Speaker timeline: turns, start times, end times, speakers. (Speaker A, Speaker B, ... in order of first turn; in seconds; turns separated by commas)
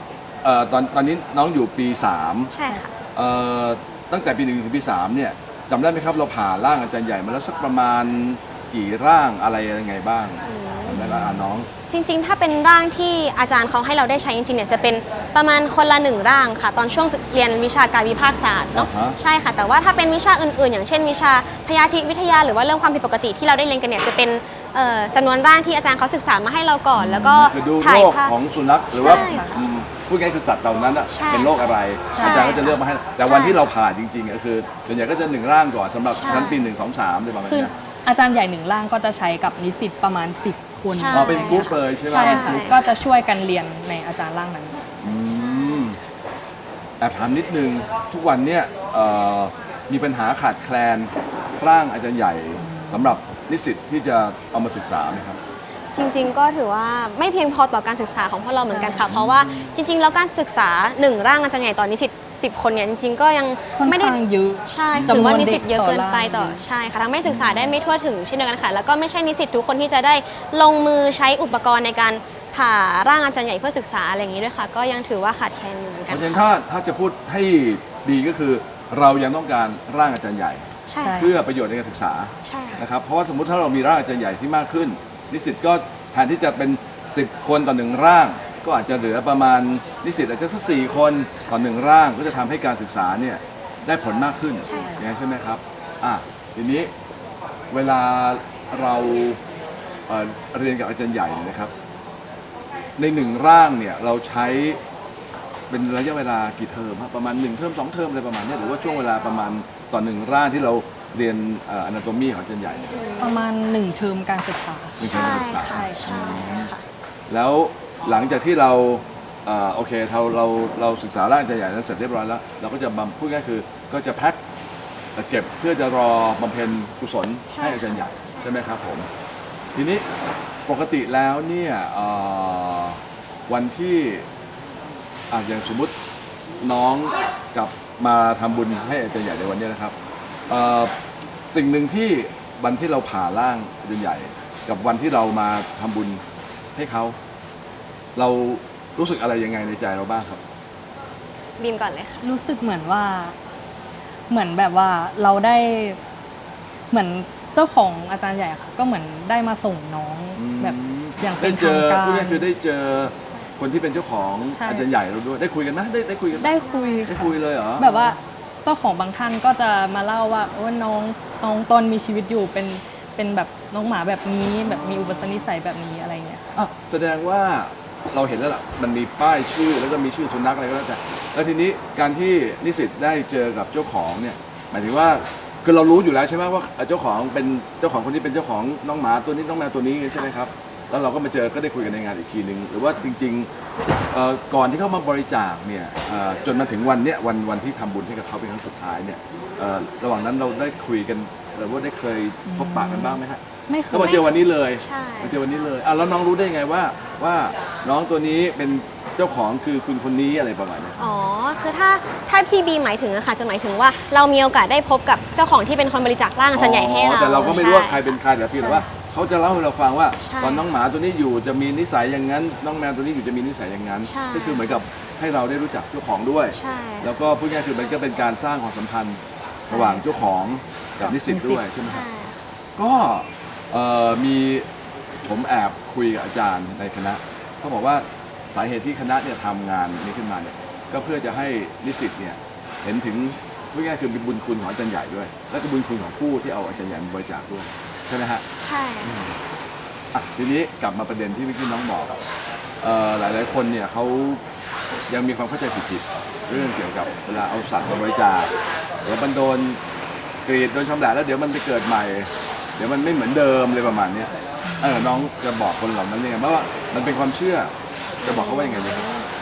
Speaker A: 0.4-2.5, Speaker B: 2.5-2.9, Speaker C: 2.6-2.8, Speaker A: 3.1-11.7, Speaker B: 10.4-11.1, Speaker C: 10.9-11.4, Speaker B: 11.9-28.3, Speaker A: 18.7-19.2, Speaker A: 26.9-37.7, Speaker B: 28.9-29.6, Speaker C: 28.9-29.6, Speaker B: 31.1-33.6, Speaker C: 32.1-32.6, Speaker B: 36.1-36.7, Speaker C: 38.0-45.0, Speaker B: 40.9-42.8, Speaker A: 41.1-42.7, Speaker A: 45.0-46.0, Speaker B: 45.2-45.9, Speaker A: 47.0-55.4, Speaker C: 52.6-53.2, Speaker B: 55.9-76.4, Speaker C: 58.6-59.1, Speaker A: 59.1-59.7, Speaker C: 63.7-66.6, Speaker A: 64.9-65.6, Speaker A: 67.2-67.8, Speaker A: 76.1-96.9, Speaker B: 80.9-81.3, Speaker C: 81.0-81.3, Speaker B: 82.4-82.8, Speaker C: 94.7-95.0, Speaker B: 94.7-95.0, Speaker A: 97.7-99.4, Speaker A: 100.1-101.7, Speaker A: 103.0-104.8, Speaker A: 105.7-113.0, Speaker C: 113.2-116.1, Speaker A: 115.0-116.7, Speaker B: 115.0-116.8, Speaker A: 117.3-124.4, Speaker A: 125.1-129.1, Speaker B: 127.5-128.6, Speaker A: 129.7-130.1, Speaker A: 130.7-134.3, Speaker A: 135.3-135.9, Speaker A: 136.6-139.9, Speaker A: 140.5-140.9, Speaker A: 141.5-146.2, Speaker A: 146.7-147.2, Speaker A: 148.2-150.4, Speaker B: 151.6-152.3, Speaker C: 152.2-153.3, Speaker C: 154.3-156.0, Speaker C: 156.9-162.5, Speaker A: 160.3-168.2, Speaker C: 164.5-164.8, Speaker C: 166.3-176.5, Speaker B: 166.6-167.1, Speaker A: 174.6-175.5, Speaker A: 176.5-211.0, Speaker C: 202.4-204.2, Speaker B: 204.0-205.4, Speaker B: 211.0-218.8, Speaker A: 216.5-232.1, Speaker B: 220.2-220.7, Speaker B: 224.1-224.8, Speaker B: 226.5-227.1, Speaker C: 229.6-230.0, Speaker C: 231.0-231.7, Speaker B: 231.8-232.5, Speaker A: 232.8-234.7, Speaker A: 235.2-248.4, Speaker B: 248.6-249.3, Speaker A: 249.0-249.4, Speaker A: 250.1-252.2, Speaker A: 252.8-254.4, Speaker A: 255.1-259.8, Speaker A: 260.4-269.2, Speaker C: 264.6-265.2, Speaker B: 268.2-269.3